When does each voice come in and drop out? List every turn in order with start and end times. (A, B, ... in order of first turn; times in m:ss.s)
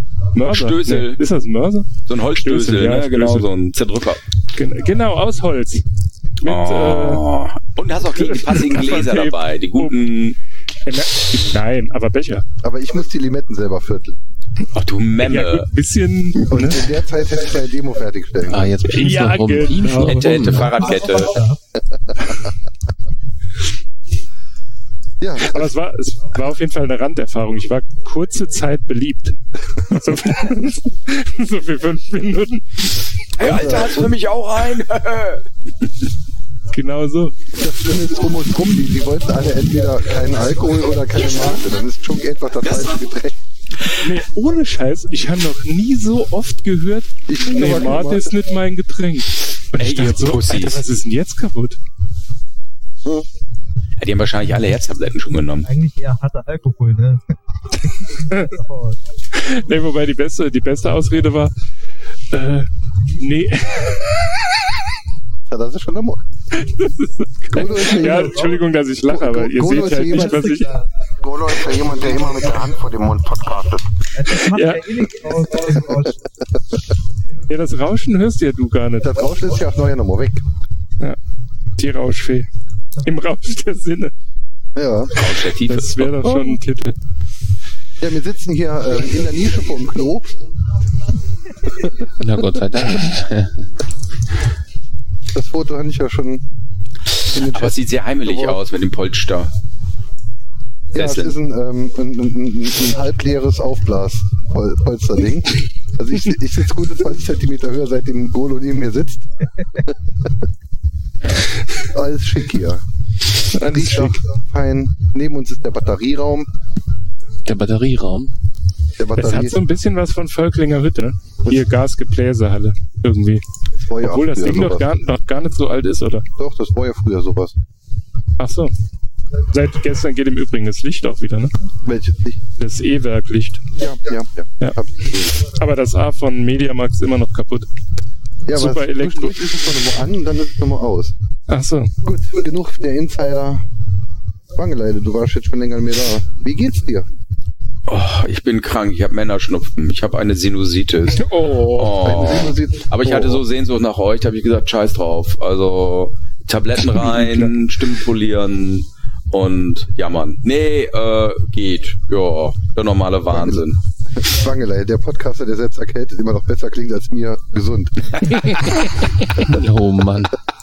0:00.3-0:03.5 A
0:00.4-0:01.2 B
0:02.1-0:04.2 B
0:04.5-0:05.8 A
0:06.4-0:07.2 A
0:06.4-0:10.4 B
0:08.2-0:10.0 A
0:10.8-0:12.4 A
0:12.6-0:14.2 C
0:14.7-0:15.7 B
0:15.2-0:16.9 A
0:16.5-0:18.7 C
0:18.4-0:20.8 D
0:18.8-0:20.6 A
0:20.0-0:21.4 B
0:20.6-0:21.6 E
0:22.0-0:22.5 C
0:25.2-0:25.7 C
0:25.4-0:33.0 A
0:33.4-0:35.4 B
0:33.4-0:34.1 C
0:36.7-0:37.3 A
0:37.5-0:43.4 C
0:44.0-0:51.8 A
0:47.3-0:48.4 C
0:49.7-0:50.8 B
0:54.0-0:55.6 B
0:55.6-0:57.3 E
0:57.8-0:59.0 E
0:59.3-1:01.5 A
1:02.3-1:04.3 A
1:05.5-1:06.2 C
1:06.5-1:10.7 A
1:07.5-1:08.5 C
1:09.1-1:10.6 C
1:10.1-1:10.6 E
1:11.2-1:13.8 C
1:14.1-1:16.2 E
1:14.5-1:15.0 A
1:17.5-1:19.1 A
1:19.0-1:20.4 C
1:21.8-1:22.5 A
1:23.0-1:24.1 A
1:24.8-1:25.2 C
1:25.2-1:26.4 B
1:25.6-1:26.9 A
1:28.0-1:30.3 C
1:32.2-1:33.6 D
1:35.3-1:36.4 C
1:37.3-1:38.6 C
1:37.4-1:39.5 B
1:40.9-1:49.2 C
1:40.9-1:41.3 B
1:49.9-1:50.3 C
1:51.9-1:52.8 C
1:53.5-1:54.2 A
1:53.6-1:56.5 C
1:57.4-1:58.3 D
1:59.0-1:59.6 C
1:59.2-2:03.4 A
2:03.8-2:04.9 C
2:04.0-2:06.2 A
2:06.4-2:07.6 C
2:08.4-2:08.7 A
2:09.5-2:11.5 A
2:11.8-2:12.4 C
2:12.6-2:13.6 A
2:13.8-2:15.4 C
2:15.4-2:17.7 A
2:18.5-2:21.1 C
2:18.5-2:19.4 A
2:21.5-2:21.9 A
2:22.0-2:23.6 C
2:24.5-2:27.1 C
2:27.9-2:43.8 B
2:31.2-2:32.0 A
2:32.0-2:33.4 C
2:43.3-2:48.3 C
2:49.4-2:50.4 D